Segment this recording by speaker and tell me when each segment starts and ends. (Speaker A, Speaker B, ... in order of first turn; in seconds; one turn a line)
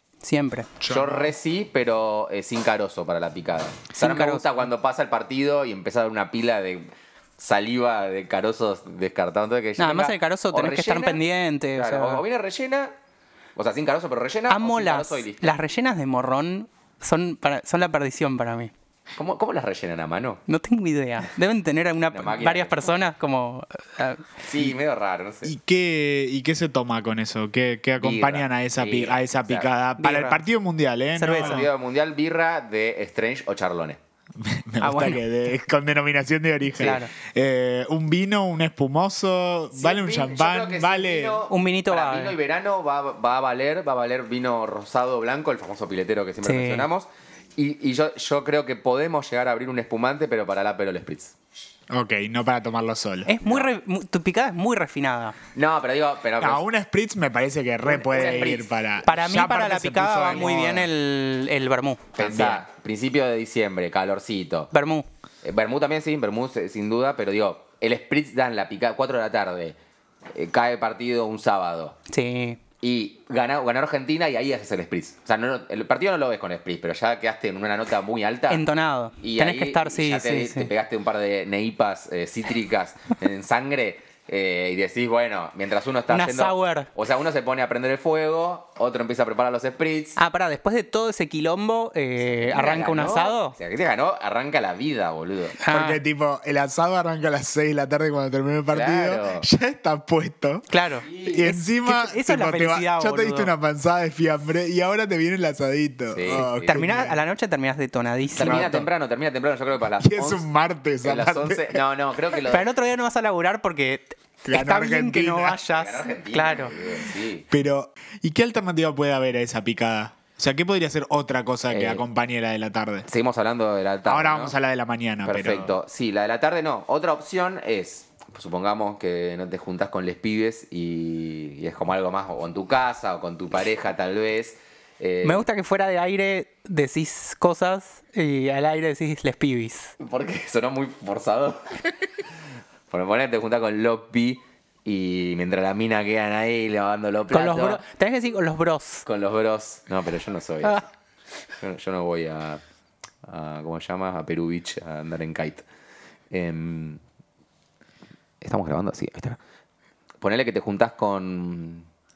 Speaker A: 0.2-0.7
Speaker B: 0.8-1.3
Speaker C: 0.8-11.2
Speaker A: 3.9-4.6
Speaker A: 9.8-12.2
Speaker C: 11.8-12.9
Speaker C: 13.6-15.5
Speaker A: 14.5-18.7
Speaker C: 19.1-20.4
Speaker A: 20.5-24.4
Speaker C: 22.1-22.9
Speaker C: 24.4-25.5
Speaker B: 25.4-31.7
Speaker C: 28.0-29.7
Speaker A: 30.0-30.4
Speaker A: 31.2-31.6
Speaker C: 31.3-34.0
Speaker B: 34.4-41.4
Speaker A: 34.8-35.2
Speaker A: 36.8-37.1
Speaker C: 39.7-51.3
Speaker A: 41.5-42.3
Speaker A: 46.4-46.9
Speaker B: 51.9-53.3
Speaker A: 53.2-55.4
Speaker C: 53.4-53.7
Speaker C: 55.5-56.6
Speaker B: 56.4-60.9
Speaker C: 57.8-58.7
Speaker A: 59.0-62.1
Speaker C: 62.1-64.7
Speaker B: 62.2-62.6
Speaker A: 64.7-65.0
Speaker C: 65.4-69.8
Speaker C: 70.3-72.0
Speaker A: 72.1-72.6
Speaker C: 72.8-78.6
Speaker A: 78.5-80.7
Speaker C: 79.2-90.2
Speaker A: 86.1-86.9
Speaker A: 90.2-93.5
Speaker C: 92.2-95.6
Speaker A: 95.6-96.0
Speaker B: 95.7-100.7
Speaker C: 98.7-99.5
Speaker A: 100.7-103.5
Speaker C: 101.1-101.4
Speaker B: 101.2-107.2
Speaker C: 106.1-106.8
Speaker A: 106.7-108.8
Speaker C: 108.3-110.5
Speaker B: 108.4-108.7
Speaker B: 110.0-111.8
Speaker C: 111.0-112.7
Speaker A: 112.5-116.8
Speaker B: 114.5-115.6
Speaker C: 115.7-117.5
Speaker B: 117.5-123.1
Speaker C: 121.7-122.0
Speaker C: 123.1-124.5
Speaker B: 124.0-125.7
Speaker C: 125.2-135.4
Speaker A: 135.2-139.9
Speaker C: 140.0-141.8
Speaker C: 142.9-147.8
Speaker A: 147.3-149.0
Speaker C: 149.0-150.9
Speaker C: 151.6-152.6
Speaker C: 153.2-155.6
Speaker C: 156.3-157.0
Speaker C: 158.4-159.4
Speaker C: 160.2-161.9